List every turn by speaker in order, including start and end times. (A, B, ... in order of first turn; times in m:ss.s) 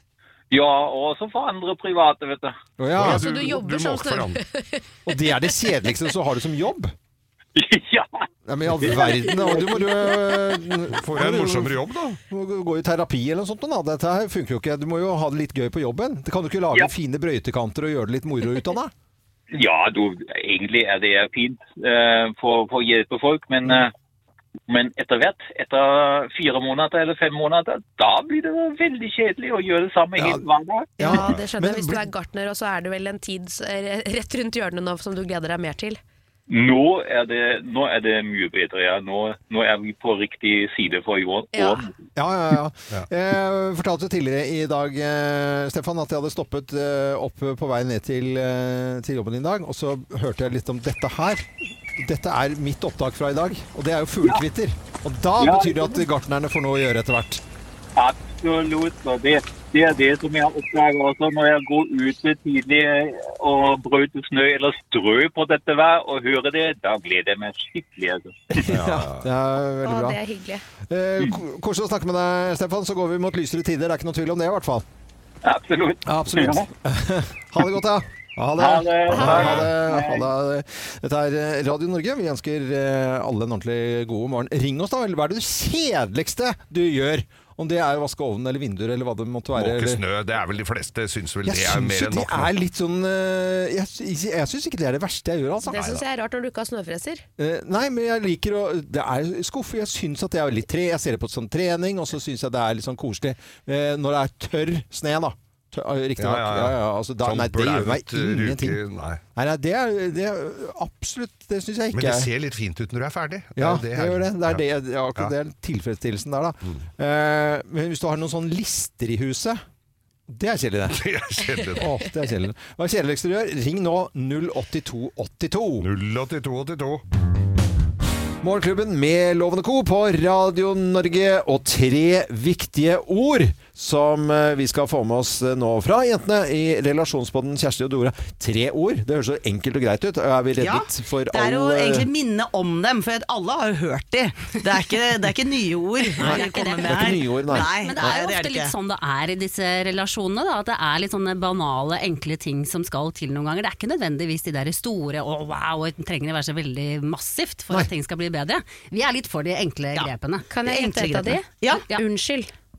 0:00.5-0:02.6 A
0:02.8-0:03.2 B
0:02.9-0:04.4 C
0:03.0-0:04.8 D
0:05.1-0:06.9 B
0:07.6-0:08.2 A
0:08.5-0:18.9 B
0:08.8-0:09.8 A
0:10.9-0:12.2 C
0:19.5-0:23.9 A
0:24.7-0:30.9 A
0:30.2-0:30.4 B
0:31.0-0:32.0 B
0:31.0-0:36.0 D
0:31.1-0:31.4 C
0:36.5-0:41.9 A
0:41.5-0:41.8 D
0:42.2-0:57.4 B
0:55.4-0:56.1 A
0:58.0-1:08.4 A
1:08.5-1:10.2 B
1:08.7-1:09.3 C
1:09.8-1:10.6 D
1:10.9-1:14.9 B
1:15.4-1:16.7 A
1:16.0-1:30.0 B
1:18.6-1:20.3 A
1:19.1-1:19.7 D
1:29.6-1:32.5 C
1:31.4-1:36.0 B
1:35.7-1:37.2 D
1:35.7-1:36.0 C
1:37.4-1:48.8 B
1:46.2-1:49.2 C
1:49.4-1:52.3 B
1:51.9-1:54.6 C
1:53.6-1:59.6 B
2:00.3-2:01.0 B
2:00.9-2:02.0 C
2:01.8-2:05.9 B
2:05.8-2:07.0 C
2:08.4-2:22.1 B
2:20.6-2:28.7 E
2:26.2-2:40.5 F
2:26.2-2:28.1 B
2:40.5-2:42.5 D
2:40.7-2:41.8 E